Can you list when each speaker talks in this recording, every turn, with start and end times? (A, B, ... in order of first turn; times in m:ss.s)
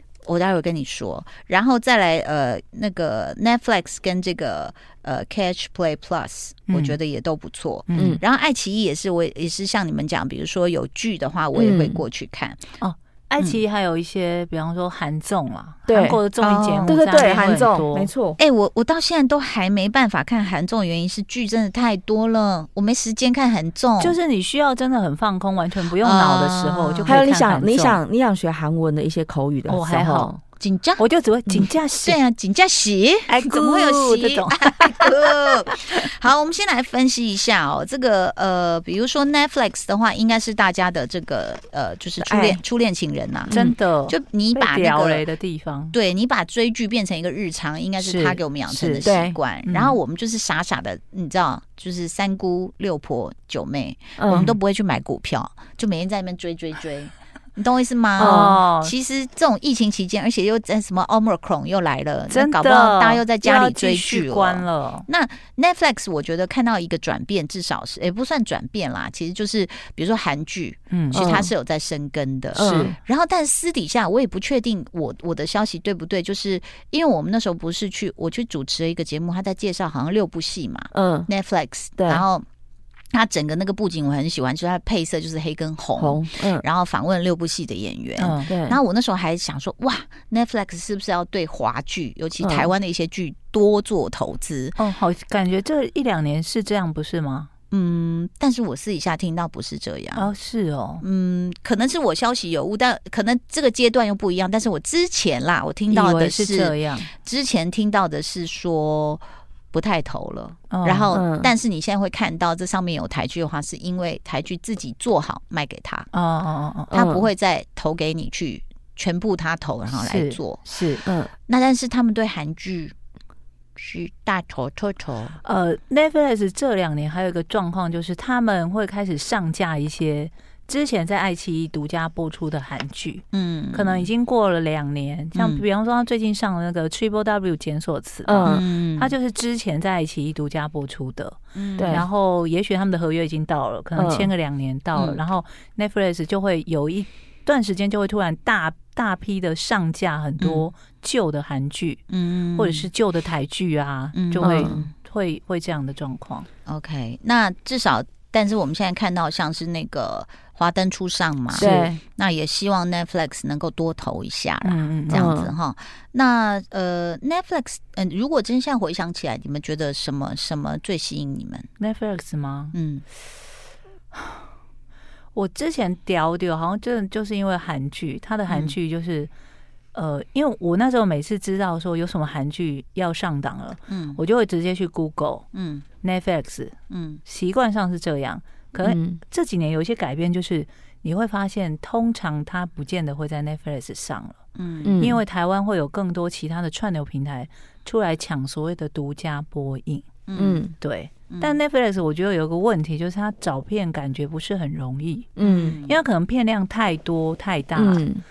0:00.2-0:12.7 A
0:06.7-0:07.0 B
0:07.9-0:08.2 B
0:08.0-0:08.2 C
0:11.5-0:12.0 C
0:12.8-0:18.1 B
0:15.9-0:16.2 C
0:16.4-0:17.0 A
0:16.9-0:18.4 C
0:18.4-0:24.2 A
0:24.0-0:28.0 B
0:26.0-0:27.2 A
0:27.0-0:30.4 C
0:29.7-0:30.3 B
0:30.6-0:31.0 A
0:31.0-0:32.2 B
0:32.0-0:43.5 A
0:33.3-0:35.1 B
0:42.2-0:42.6 C
0:43.5-0:43.7 C
0:43.5-0:46.0 B
0:44.1-0:45.2 A
0:45.9-1:22.4 A
0:48.0-0:49.0 B
0:49.0-0:49.4 C
0:49.6-0:50.0 B
0:54.2-0:54.6 C
0:58.2-0:58.6 C
0:58.2-0:58.9 B
1:02.3-1:05.0 B
1:10.9-1:11.3 B
1:11.1-1:11.5 C
1:12.5-1:12.9 C
1:12.6-1:12.9 B
1:20.9-1:21.3 C
1:22.0-1:22.2 C
1:23.1-1:34.8 A
1:26.0-1:26.6 C
1:28.2-1:28.5 B
1:28.5-1:28.8 C
1:32.4-1:32.7 C
1:34.8-1:37.5 B
1:37.7-1:40.3 A
1:40.2-1:41.0 B
1:41.0-1:56.1 A
1:45.9-1:47.1 B
1:50.7-1:51.1 B
1:51.1-1:51.5 C
1:56.1-1:56.9 B
1:56.9-2:02.9 A
1:56.9-1:57.3 C
1:59.9-2:01.0 B
2:01.0-2:01.3 C
2:03.8-2:05.4 A
2:05.4-2:32.0 B
2:13.3-2:14.1 A
2:15.3-2:15.6 A
2:18.2-2:18.6 C
2:18.4-2:19.1 A
2:21.5-2:22.0 A
2:21.8-2:22.0 C
2:24.0-2:24.3 C
2:30.4-2:30.7 A
2:32.1-2:32.9 A
2:32.6-2:36.5 B
2:34.1-2:34.9 A
2:34.4-2:34.9 C
2:36.7-2:51.7 A
2:41.5-2:42.0 C
2:44.6-2:45.3 B
2:45.1-2:45.5 C
2:51.8-2:52.7 B
2:52.7-2:53.0 A
2:55.3-2:59.3 B
2:58.5-2:58.7 A
2:59.9-3:05.4 B
3:03.9-3:04.2 A
3:05.5-3:05.8 A
3:06.0-3:14.4 B
3:06.9-3:07.2 A
3:08.8-3:09.2 C
3:14.6-3:15.0 A
3:14.8-3:15.2 C
3:15.0-3:20.1 B
3:20.3-3:20.6 A
3:20.4-3:20.7 C
3:20.8-3:28.0 B
3:21.3-3:21.6 A
3:25.4-3:25.8 C
3:25.4-3:26.0 A
3:27.8-3:28.2 C